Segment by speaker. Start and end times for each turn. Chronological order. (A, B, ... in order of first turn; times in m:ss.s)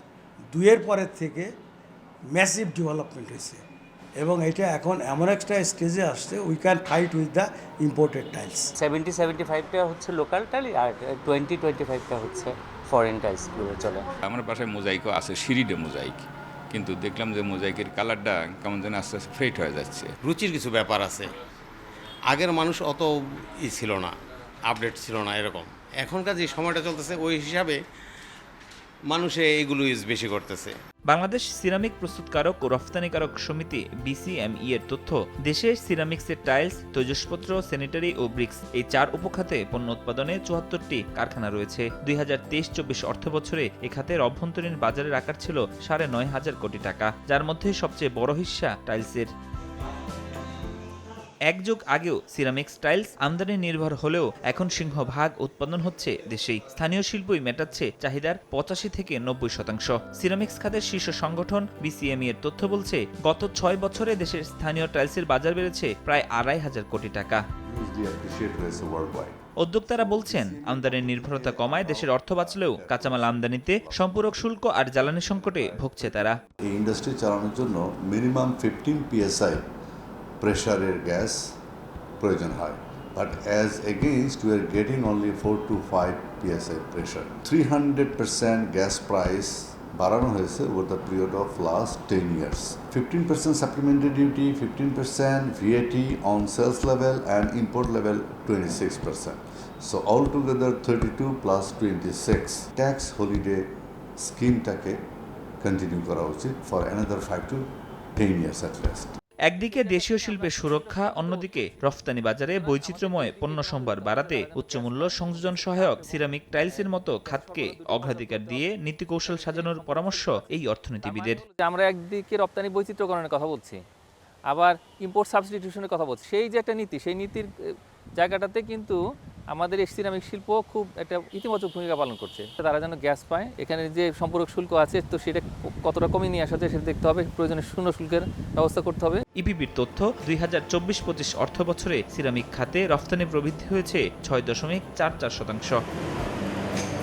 0:00.5-0:01.5 A
0:02.3-0:03.6 A
0:04.2-0:08.7 A
0:08.8-0:14.0 B
0:14.3-0:20.1 C
0:20.2-0:21.3 D
0:22.3-0:24.2 D
0:24.7-0:27.8 D
0:29.1-0:30.7 D
0:31.1-0:49.3 E
0:51.5-1:07.4 E
1:07.7-1:19.7 F
1:09.6-1:16.4 E
1:20.4-1:21.6 F
1:22.2-1:45.0 F
1:45.6-1:49.2 F
1:49.5-2:01.4 E
1:49.6-2:03.8 G
2:04.5-2:07.5 G
2:08.2-2:09.0 G
2:09.5-2:19.2 G
2:19.4-2:25.8 E